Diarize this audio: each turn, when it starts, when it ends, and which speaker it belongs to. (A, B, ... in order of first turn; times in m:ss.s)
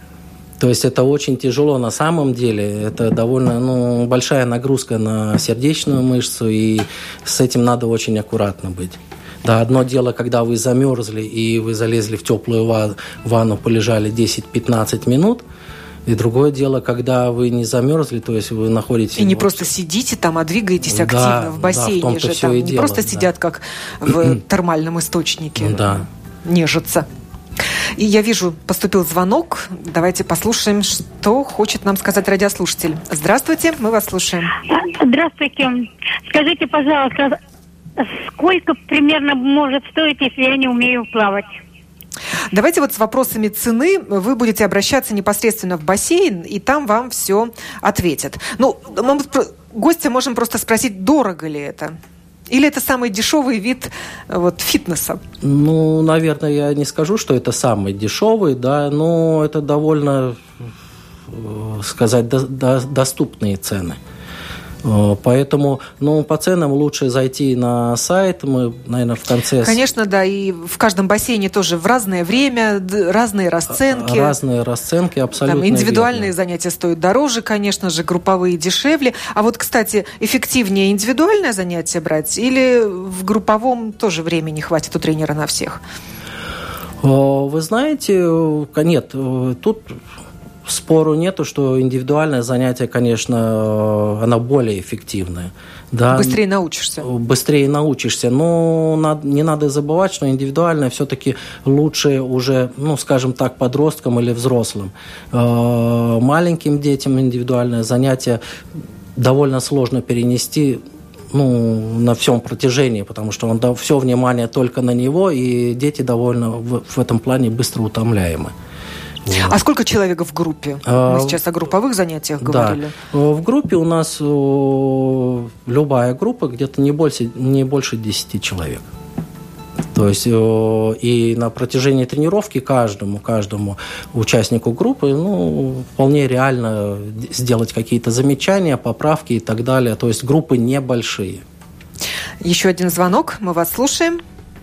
0:00.6-0:15.4 A
0:16.1-0:19.7 A
0:19.2-0:27.1 B
0:20.9-0:23.3 A
0:25.6-0:26.0 A
0:28.0-0:34.5 B
0:34.7-0:37.4 C
0:38.0-0:41.6 C
0:42.5-0:52.0 B
0:52.5-0:55.2 B
0:55.4-1:00.4 A
1:01.3-1:04.0 A
1:04.8-1:09.8 A
1:09.6-1:14.3 B
1:13.7-1:16.3 A
1:15.4-1:25.8 B
1:27.0-1:30.0 A
1:30.7-1:36.4 A
1:36.1-1:37.1 B
1:37.0-1:48.4 A
1:49.2-1:50.8 A
1:51.3-1:58.5 A
1:59.3-1:59.6 A
1:59.3-2:02.9 B
2:00.9-2:01.4 A
2:02.4-2:08.9 A
2:09.9-2:21.4 A
2:22.4-2:24.2 B